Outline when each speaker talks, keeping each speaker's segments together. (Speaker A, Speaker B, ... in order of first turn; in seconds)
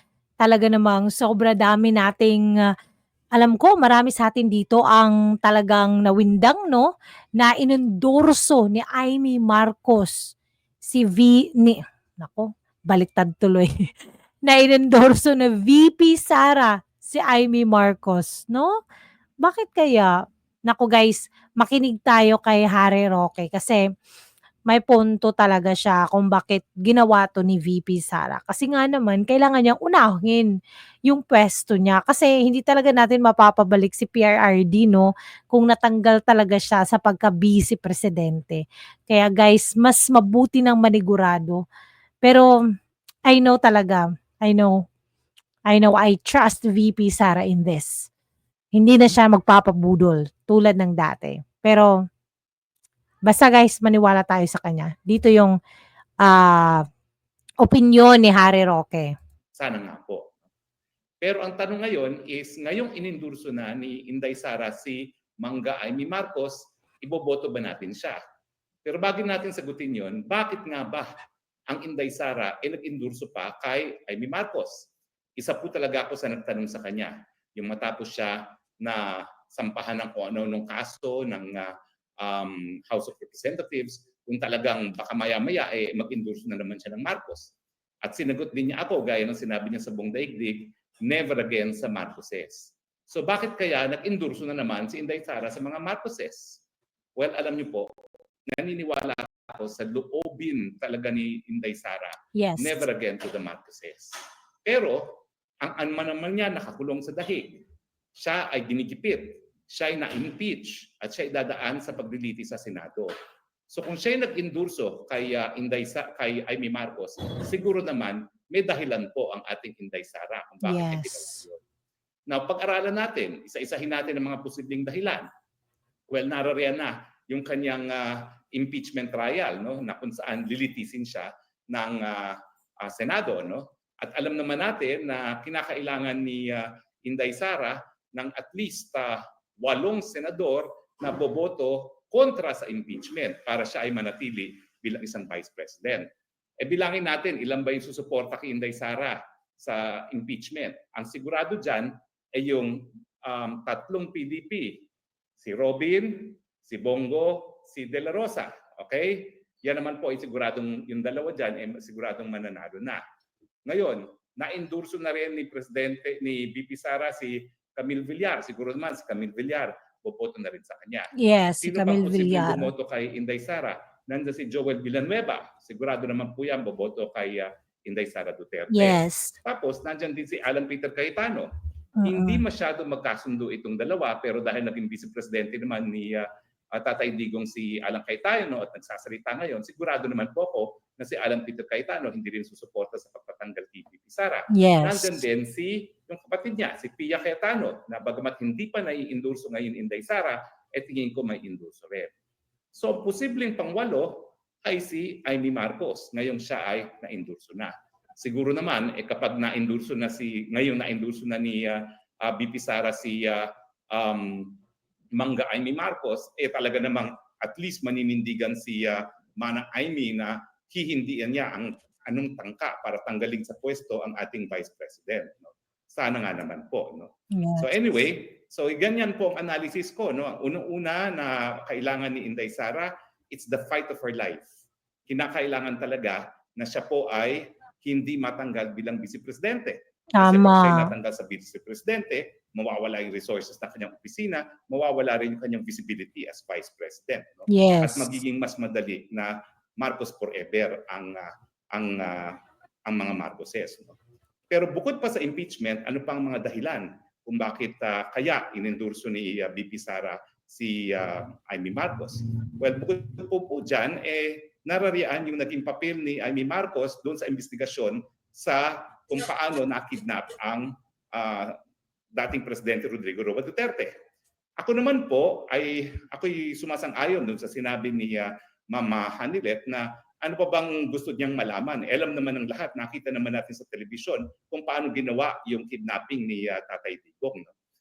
Speaker A: 0.4-2.7, 3.3-13.7, 14.4-18.7, 19.4-20.1, 20.7-23.8, 24.7-30.5, 31.1-41.6, 42.2-42.5, 43.3-44.8, 45.7-48.1, 48.7-51.9, 53.2-55.5, 56.2-56.8, 57.6-59.1, 102.3-102.8, 120.6-121.2, 171.1-172.7, 178.7-179.3, 182.0-182.4, 194.5-195.1, 227.3-227.7, 240.2-240.9, 247.5-248.1
Speaker B: 59.5-60.3, 61.2-68.2, 68.8-71.1, 71.7-87.5, 88.0-96.6, 97.2-97.9, 98.5-104.1, 104.6-107.6, 108.2-113.1, 113.7-121.6, 122.3-125.3, 126.1-146.1, 146.6-154.9, 155.4-163.0, 163.7-181.5, 182.0-202.1, 202.7-214.6, 215.2-234.4, 235.1-254.0, 254.5-271.6, 272.1-273.9, 274.6-287.5